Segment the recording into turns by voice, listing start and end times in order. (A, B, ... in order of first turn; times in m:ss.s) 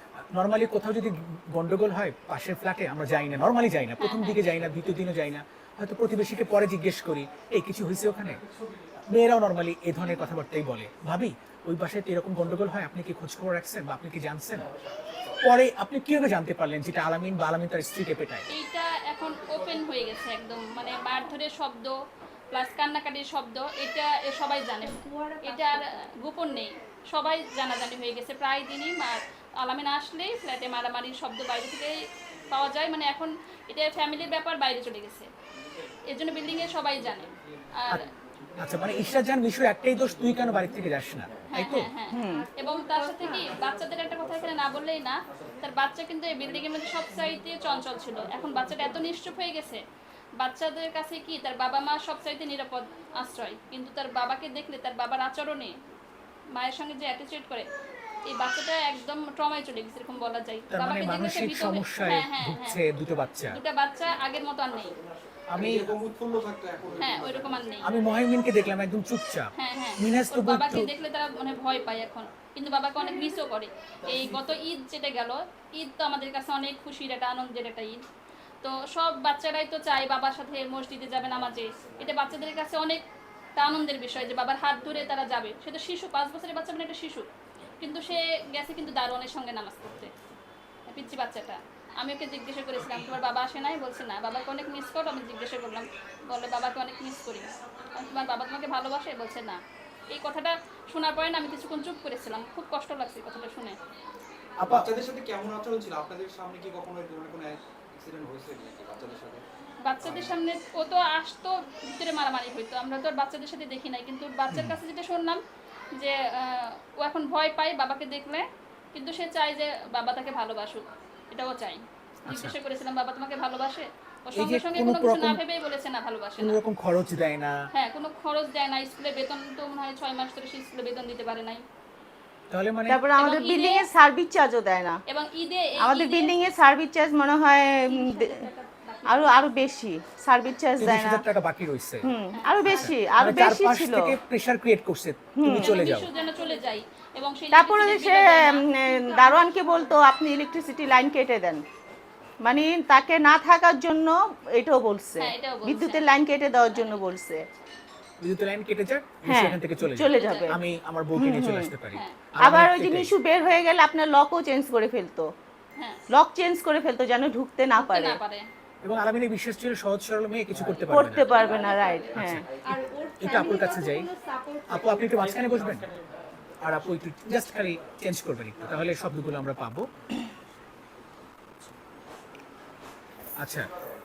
0:00.3-0:08.4 A
0:04.0-0:04.4 B
0:09.1-0:14.7 A
0:10.1-0:10.3 B
0:15.4-0:18.5 A
0:18.5-0:22.0 B
0:22.5-0:32.0 B
0:24.8-0:26.1 C
0:32.5-0:35.3 B
0:36.1-0:38.0 B
0:38.6-0:41.9 A
0:41.5-0:49.8 B
0:42.1-0:42.5 D
0:42.3-0:43.6 C
0:50.4-0:55.7 B
0:56.6-0:57.6 B
0:58.3-1:02.8 B
1:00.7-1:03.6 A
1:03.5-1:05.0 B
1:05.5-1:06.0 A
1:05.6-1:07.6 E
1:07.0-1:07.8 B
1:07.9-1:10.9 A
1:09.6-1:18.0 B
1:18.6-1:23.0 B
1:23.6-1:27.3 B
1:27.8-1:30.1 B
1:30.9-1:39.6 B
1:40.1-1:43.8 B
1:44.6-1:44.9 A
1:44.7-1:49.4 E
1:49.8-1:55.4 B
1:54.5-1:54.8 A
1:56.0-2:06.6 B
2:02.3-2:02.5 A
2:04.4-2:05.4 A
2:06.4-2:07.6 A
2:07.7-2:11.6 B
2:12.5-2:13.0 A
2:12.9-2:15.0 D
2:13.2-2:13.8 B
2:15.1-2:16.3 B
2:15.8-2:18.4 D
2:17.9-2:19.4 C
2:19.1-2:21.2 D
2:20.8-2:22.1 A
2:22.0-2:24.1 D
2:22.6-2:26.1 A
2:22.8-2:23.1 C
2:25.4-2:25.7 D
2:25.6-2:28.7 B
2:26.1-2:26.8 C
2:27.5-2:31.6 D
2:29.0-2:29.9 C
2:32.4-2:37.4 D
2:35.2-2:36.1 B
2:36.7-2:37.7 B
2:38.2-2:43.1 A
2:39.3-2:40.6 D
2:40.1-2:40.6 B
2:41.2-2:41.7 D
2:42.4-2:45.3 D
2:46.1-2:48.2 D
2:47.8-2:48.5 B
2:48.8-2:51.5 A
2:50.9-2:52.4 D
2:51.3-2:55.4 C
2:52.1-2:52.4 A
2:53.2-2:54.1 A
2:54.7-2:55.9 A
2:56.6-2:59.8 A